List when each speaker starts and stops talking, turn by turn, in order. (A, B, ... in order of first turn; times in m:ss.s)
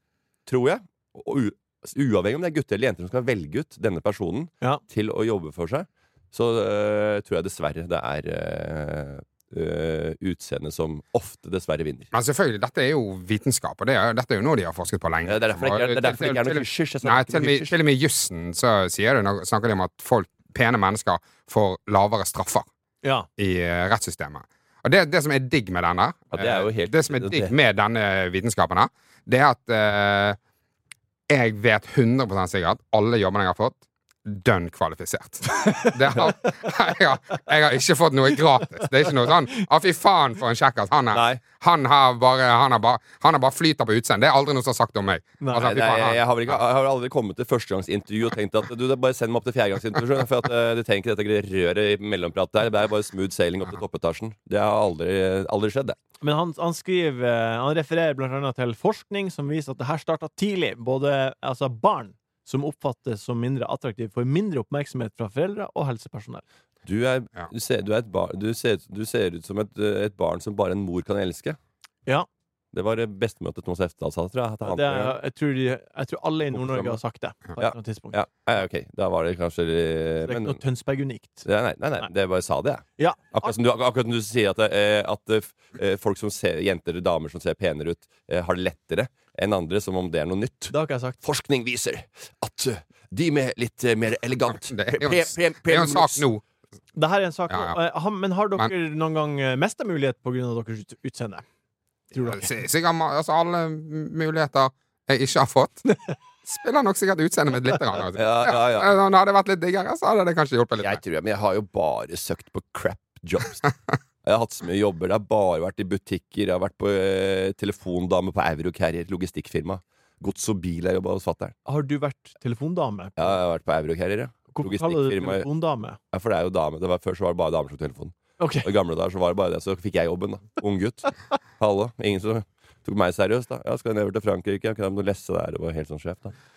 0:00.4-0:12.1 A
0:12.1-0:22.6 B
0:15.2-0:17.7 A
0:23.0-0:23.3 C
0:23.4-0:30.4 B
0:26.3-0:27.5 A
0:31.3-0:46.6 B
0:35.6-0:36.5 C
0:41.1-0:41.4 A
0:45.4-0:45.7 C
0:45.6-0:56.0 A
0:56.2-1:06.4 C
1:06.8-1:11.6 A
1:12.7-1:15.1 A
1:14.6-1:18.2 C
1:16.5-1:17.0 A
1:17.6-1:20.6 A
1:20.2-1:21.4 C
1:21.4-1:36.2 A
1:23.0-1:23.5 C
1:30.7-1:31.2 C
1:34.7-1:36.4 B
1:37.0-1:41.4 C
1:37.5-1:37.8 B
1:42.1-1:42.5 C
1:42.2-1:45.8 B
1:46.4-1:51.0 B
1:48.2-1:48.9 A
1:50.8-1:53.6 A
1:54.2-2:01.5 A
2:01.6-2:03.4 C
2:03.2-2:05.5 A
2:04.5-2:06.0 C
2:06.1-2:16.4 A
2:08.4-2:08.7 C